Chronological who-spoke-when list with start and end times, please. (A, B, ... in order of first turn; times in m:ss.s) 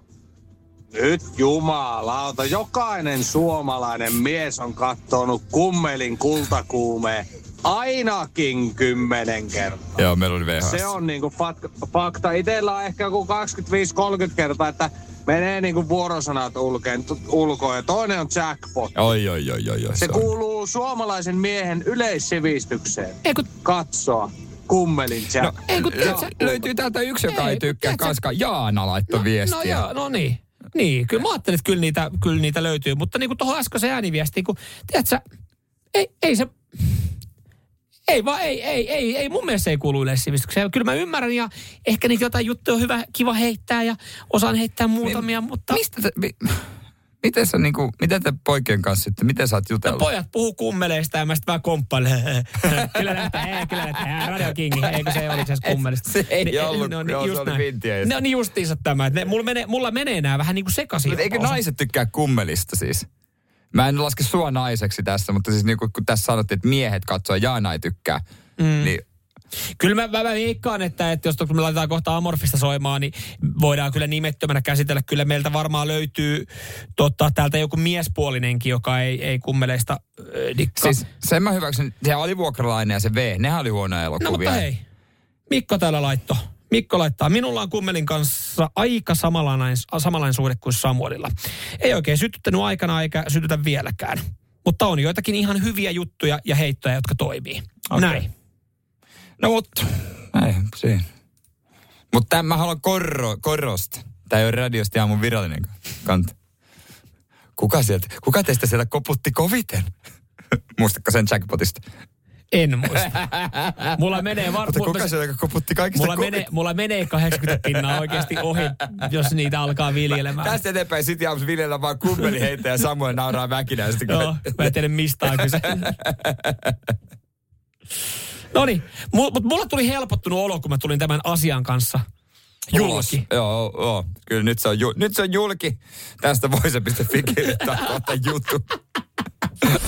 0:00.9-0:10.0 A
0:10.0-0:11.0 B
0:10.6-0:19.0 A
0:19.0-0:20.3 B
0:20.0-0:26.6 A
0:23.2-0:23.5 C
0:25.4-0:29.8 B
0:25.7-0:26.5 C
0:27.3-0:28.2 C
0:29.1-0:35.2 C
0:35.9-0:36.5 C
0:38.1-0:45.8 C
0:45.0-0:46.7 B
0:47.2-0:50.1 B
0:49.8-1:01.6 C
0:55.6-0:58.1 B
1:01.1-1:03.1 B
1:03.7-1:08.2 B
1:08.6-1:09.0 C
1:09.8-1:21.0 C
1:20.8-1:24.7 B
1:24.2-1:24.8 C
1:25.5-1:38.3 C
1:37.9-1:38.2 B
1:39.4-1:41.0 B
1:42.1-1:46.3 B
1:47.6-1:49.9 B
1:50.8-1:51.8 B
1:52.5-1:55.1 C
1:54.6-1:56.5 B
1:55.9-2:00.6 C
1:57.5-1:58.0 B
2:00.3-2:06.8 B
2:04.1-2:06.0 C
2:08.5-2:12.0 C
2:12.7-2:13.2 C
2:12.7-2:18.7 B